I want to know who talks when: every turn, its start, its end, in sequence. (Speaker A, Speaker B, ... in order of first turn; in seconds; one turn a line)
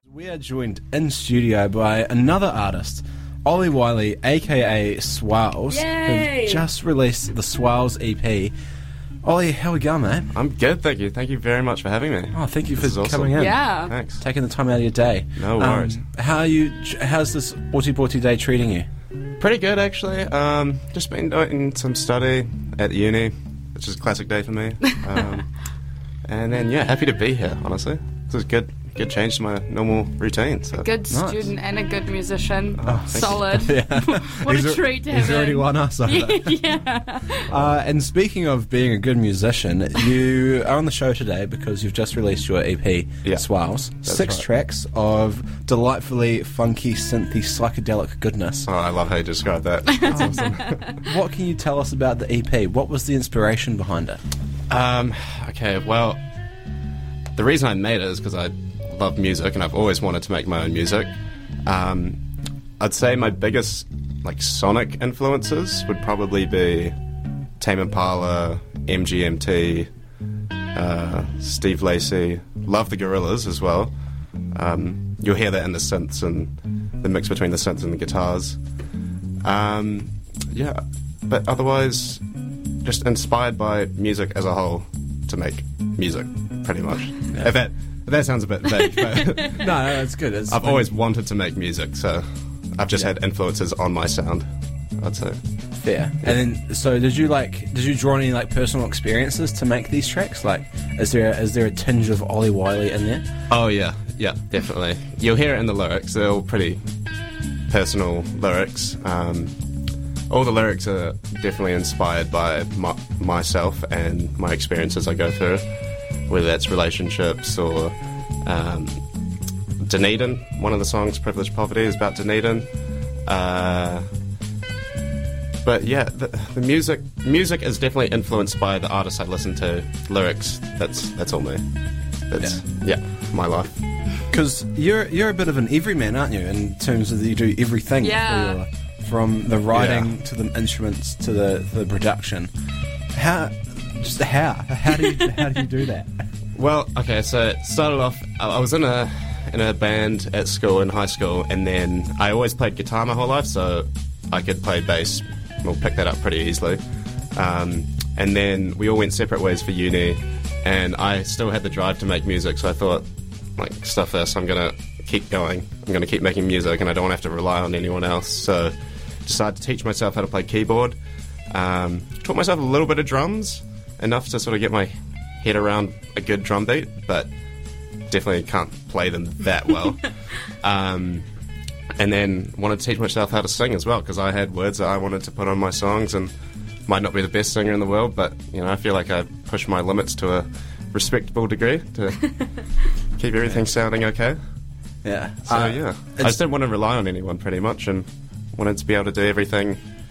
Speaker A: 0.1-8.5
Speaker B: 5.7-6.6
Speaker A: 9.2-10.3
Speaker C: 10.3-14.2
Speaker A: 12.3-18.9
Speaker B: 13.4-13.9
Speaker C: 15.4-16.0
Speaker C: 19.4-25.5
Speaker C: 26.3-30.9
Speaker B: 30.7-37.5
Speaker A: 31.1-31.5
Speaker C: 32.8-33.7
Speaker A: 32.9-36.6
Speaker A: 37.5-48.7
Speaker C: 44.0-44.5
Speaker C: 48.6-50.8
Speaker A: 50.1-54.2
Speaker C: 54.7-56.2
Speaker C: 57.4-61.1
Speaker C: 61.7-62.2
Speaker C: 62.8-67.0
Speaker C: 67.6-69.9
Speaker C: 70.7-73.9
Speaker C: 74.5-78.6
Speaker C: 79.4-82.2
Speaker C: 82.8-89.8
Speaker A: 89.5-90.9
Speaker C: 90.5-94.5
Speaker C: 95.0-95.4
Speaker A: 95.8-103.2
Speaker C: 103.5-106.8
Speaker C: 107.7-109.5
Speaker C: 110.3-115.7
Speaker C: 116.3-119.0
Speaker C: 119.8-122.7
Speaker C: 123.3-124.0
Speaker C: 125.6-131.6
Speaker C: 132.3-133.8
Speaker A: 134.3-142.5
Speaker B: 138.0-138.6
Speaker C: 139.7-140.1
Speaker A: 143.1-146.1
Speaker C: 146.6-156.8
Speaker C: 157.3-163.1
Speaker C: 163.6-171.0
Speaker C: 171.5-177.3
Speaker C: 178.1-181.2
Speaker C: 182.0-186.3
Speaker C: 186.9-192.4
Speaker C: 193.2-194.4
Speaker A: 195.0-196.4
Speaker C: 195.5-199.8